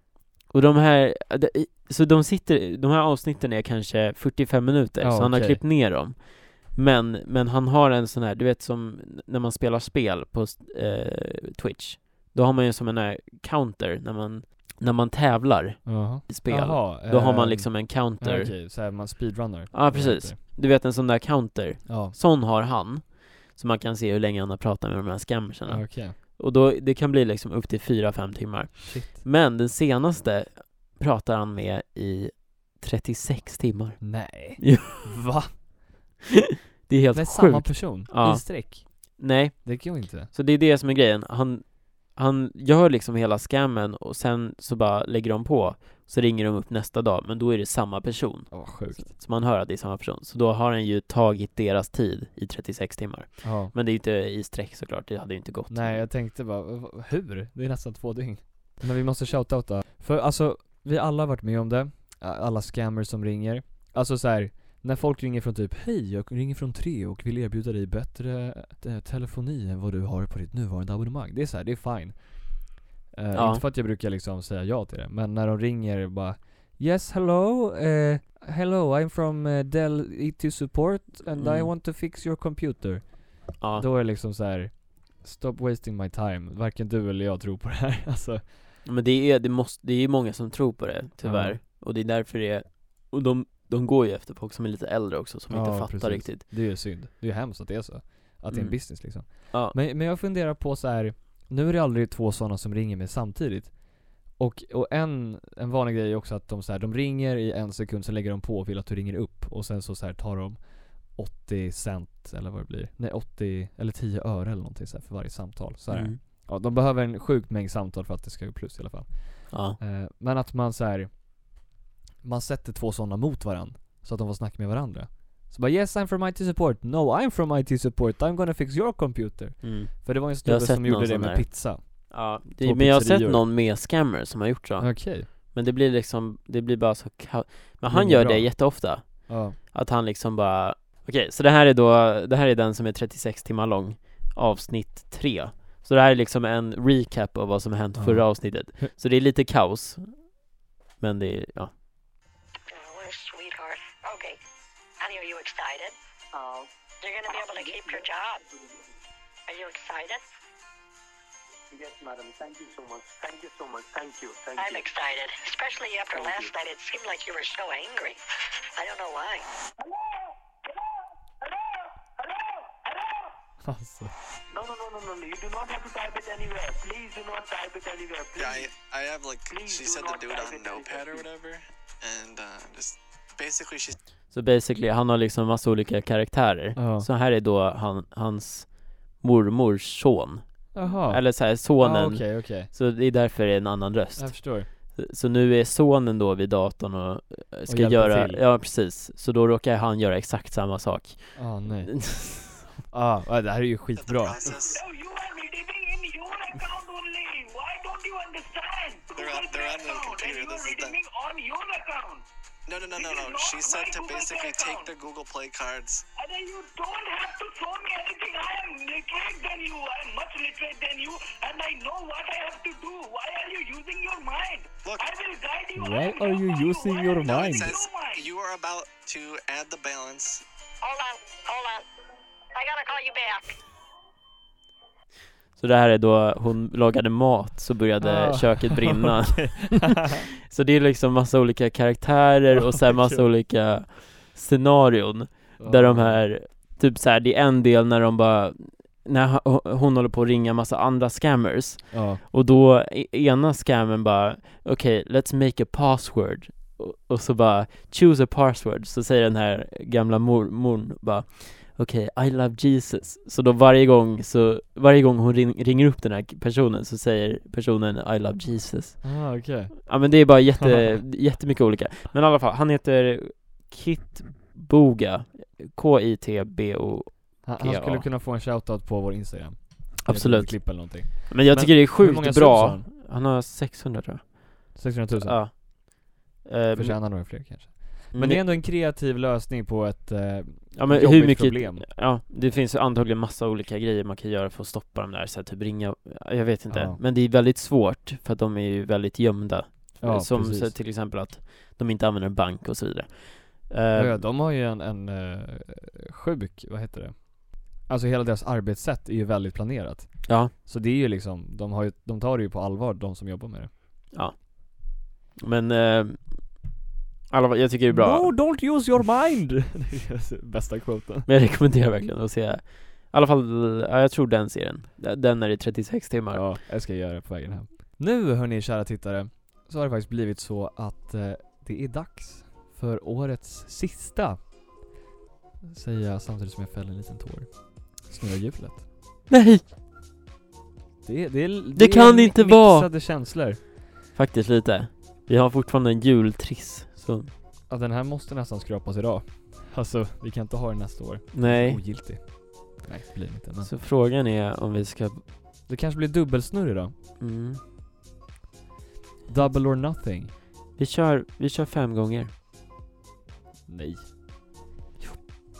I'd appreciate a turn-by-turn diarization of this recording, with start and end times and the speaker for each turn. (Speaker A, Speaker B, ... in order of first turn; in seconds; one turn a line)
Speaker A: 0.5-18.5
Speaker B: 5.0-5.6
Speaker B: 15.8-20.4
Speaker A: 19.7-35.1
Speaker B: 21.9-22.1
Speaker B: 25.6-26.2
Speaker B: 28.8-29.2
Speaker B: 34.0-35.5
Speaker A: 36.9-56.1
Speaker B: 37.1-40.3
Speaker B: 48.5-49.1
Speaker B: 53.4-53.7
Speaker B: 55.7-88.5
Speaker A: 73.3-73.6
Speaker A: 81.4-81.7
Speaker A: 83.6-83.8
Speaker A: 88.8-96.4
Speaker B: 91.2-91.6
Speaker B: 95.5-121.2
Speaker A: 98.5-99.7
Speaker A: 115.9-116.2
Speaker A: 119.5-119.8
Speaker B: 122.2-133.4
Speaker A: 129.6-150.4
Speaker B: 134.8-135.3
Speaker B: 137.9-139.6
Speaker B: 148.0-148.9
Speaker A: 151.0-151.7
Speaker C: 152.7-154.4
Speaker C: 155.0-155.9
Speaker D: 156.3-156.7
Speaker C: 157.0-158.4
Speaker D: 157.3-158.6
Speaker C: 159.5-160.2
Speaker D: 161.7-164.9
Speaker C: 164.6-168.2
Speaker D: 166.1-166.5
Speaker C: 168.8-169.5
Speaker D: 169.8-173.3
Speaker B: 173.6-174.1
Speaker D: 174.5-178.7
Speaker E: 178.4-184.0
Speaker D: 179.5-181.2
Speaker A: 184.3-202.7
Speaker B: 186.8-187.1
Speaker B: 190.7-192.7
Speaker B: 194.2-194.7
Speaker B: 197.7-198.4
Speaker B: 201.3-204.4
Speaker E: 204.0-204.8
Speaker D: 204.4-212.2
Speaker E: 209.2-210.9
Speaker E: 212.7-216.1
Speaker D: 212.9-214.9
Speaker D: 216.2-228.3
Speaker B: 225.8-227.7
Speaker E: 227.2-230.4
Speaker C: 230.8-231.8
Speaker C: 232.5-233.6
Speaker A: 235.6-269.1
Speaker B: 238.0-240.2
Speaker B: 242.5-243.2
Speaker B: 245.6-246.2
Speaker B: 251.9-252.2
Speaker B: 269.0-270.9
Speaker A: 269.9-278.1
Speaker B: 277.4-282.9
Speaker A: 280.1-287.2
Speaker B: 284.7-285.4
Speaker B: 286.7-291.9
Speaker A: 288.1-288.4
Speaker A: 290.8-304.2
Speaker B: 296.7-297.0
Speaker B: 300.0-300.7
Speaker B: 303.9-313.7
Speaker A: 310.3-310.5
Speaker A: 314.1-316.6
Speaker A: 317.3-318.6
Speaker B: 317.9-321.3
Speaker A: 321.3-326.6
Speaker B: 326.3-334.4
Speaker B: 335.6-338.8
Speaker A: 339.3-339.6
Speaker B: 341.0-343.6
Speaker A: 341.7-342.9
Speaker A: 344.1-347.3
Speaker B: 347.7-353.7
Speaker A: 351.3-351.8
Speaker A: 353.6-355.2
Speaker B: 355.7-356.9
Speaker A: 357.2-357.6
Speaker B: 359.3-360.3
Speaker A: 360.8-362.3
Speaker B: 363.7-364.1